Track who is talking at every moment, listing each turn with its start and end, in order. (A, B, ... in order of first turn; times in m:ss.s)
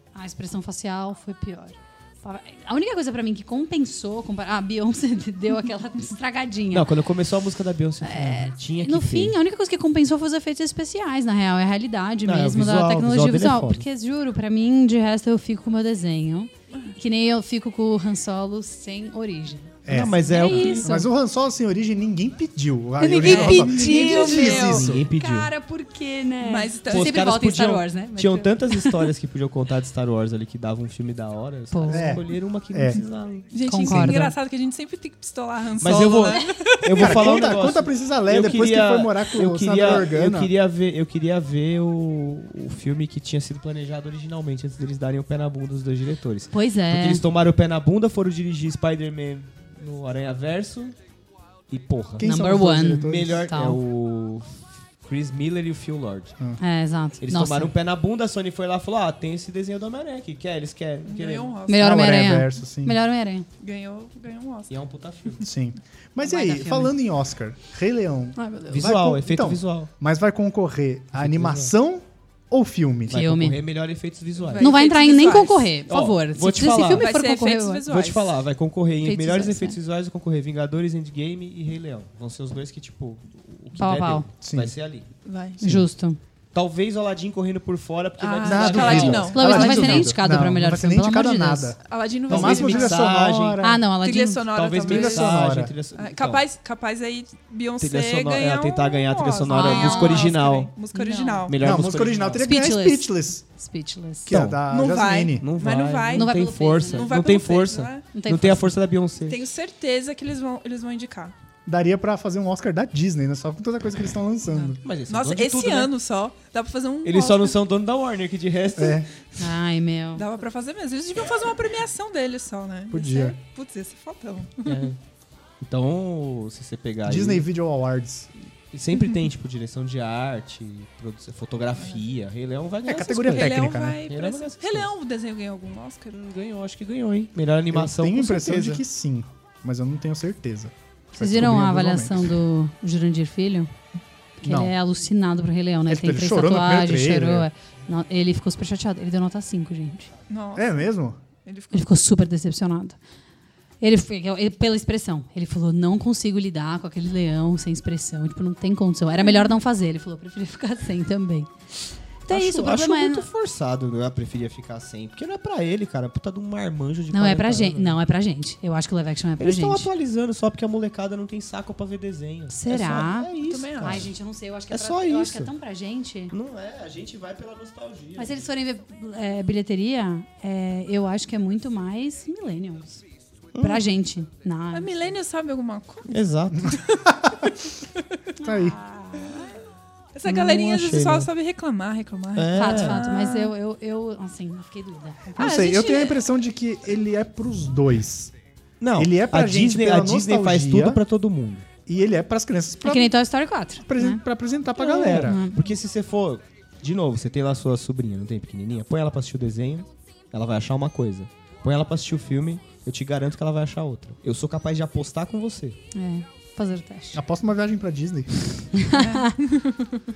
0:00.1-0:06.9 A
0:06.7-0:09.4 B
0:08.0-0:21.1 A
0:12.2-0:13.9 B
0:19.8-0:25.0 C
0:19.9-0:20.9 B
0:23.0-0:24.9 D
0:23.1-0:29.1 A
0:23.2-0:25.5 B
0:26.4-0:27.2 D
0:26.9-0:34.2 B
0:31.7-0:32.2 A
0:31.9-0:33.0 C
0:33.5-0:37.3 D
0:33.6-0:34.3 A
0:35.8-0:51.0 B
0:37.0-0:40.5 C
0:46.5-0:47.2 A
0:51.7-0:52.3 B
0:52.2-0:53.8 A
0:52.2-0:53.4 C
0:53.0-0:56.4 B
0:56.6-0:57.7 A
0:57.2-1:01.5 B
1:01.0-1:02.2 D
1:01.7-1:03.4 A
1:01.8-1:03.0 C
1:03.6-1:04.8 D
1:04.7-1:05.4 B
1:05.4-1:13.2 C
1:06.2-1:06.9 A
1:08.4-1:08.9 A
1:08.7-1:09.9 B
1:11.1-1:11.7 B
1:13.1-1:14.7 B
1:13.1-1:13.6 A
1:14.4-1:15.7 D
1:14.6-1:17.8 A
1:15.9-1:17.1 B
1:16.8-1:18.4 D
1:17.8-1:25.1 B
1:19.0-1:19.8 A
1:23.8-1:24.3 A
1:24.4-1:24.7 C
1:25.2-1:25.6 D
1:25.6-1:26.2 A
1:26.5-1:30.2 B
1:28.2-1:30.0 D
1:28.4-1:33.8 C
1:29.3-1:31.7 A
1:31.8-1:33.1 D
1:32.3-1:33.7 B
1:33.6-1:34.4 A
1:34.0-1:35.4 D
1:34.5-1:36.4 B
1:34.8-1:35.7 C
1:35.9-1:41.8 D
1:37.8-1:40.7 B
1:39.5-1:40.3 A
1:40.9-1:41.5 A
1:41.5-1:42.5 B
1:41.6-1:43.4 C
1:42.4-1:44.3 A
1:44.3-1:44.6 B
1:44.3-1:45.5 C
1:44.7-1:48.1 D
1:45.4-1:49.4 B
1:46.1-1:47.2 A
1:48.1-1:48.7 A
1:49.2-1:51.3 D
1:51.6-1:54.8 C
1:54.5-1:57.6 D
1:54.8-1:55.9 B
1:57.0-1:59.0 B
1:58.8-1:59.1 C
1:59.4-2:00.2 A
2:00.2-2:04.9 D
2:02.9-2:03.4 C
2:04.6-2:05.0 B
2:05.6-2:07.5 B
2:07.0-2:08.3 C
2:08.7-2:14.9 B
2:11.8-2:12.0 D
2:12.9-2:14.0 C
2:12.9-2:16.2 D
2:16.1-2:18.8 B
2:17.7-2:22.4 C
2:21.2-2:23.7 A
2:24.4-2:30.1 A
2:24.4-2:24.7 C
2:25.9-2:27.5 C
2:30.3-2:30.9 D
2:30.5-2:31.2 C
2:31.4-2:31.9 D
2:31.7-2:33.0 A
2:33.8-2:41.5 A
2:42.2-2:43.2 A
2:42.3-2:48.0 B
2:47.1-2:49.9 A
2:49.4-2:54.1 B
2:52.5-2:56.3 A
2:53.4-2:54.0 D
2:54.7-2:55.5 B
2:56.3-2:58.4 B
2:58.2-3:03.0 A
3:03.5-3:03.8 B
3:03.6-3:05.0 A
3:04.7-3:07.5 D
3:06.1-3:06.8 B
3:07.1-3:07.4 C
3:08.4-3:09.5 A
3:08.4-3:08.8 C
3:10.1-3:13.5 D
3:10.2-3:11.3 B
3:12.3-3:13.0 B
3:12.5-3:15.8 A
3:15.4-3:18.3 C
3:15.4-3:16.3 D
3:18.8-3:21.6 B
3:19.0-3:21.0 C
3:21.8-3:23.1 C
3:22.8-3:24.2 A
3:23.8-3:25.4 C
3:24.8-3:35.8 B
3:25.2-3:25.6 A
3:35.9-3:37.2 A
3:37.1-3:38.7 C
3:38.7-3:39.4 A
3:38.9-3:39.9 D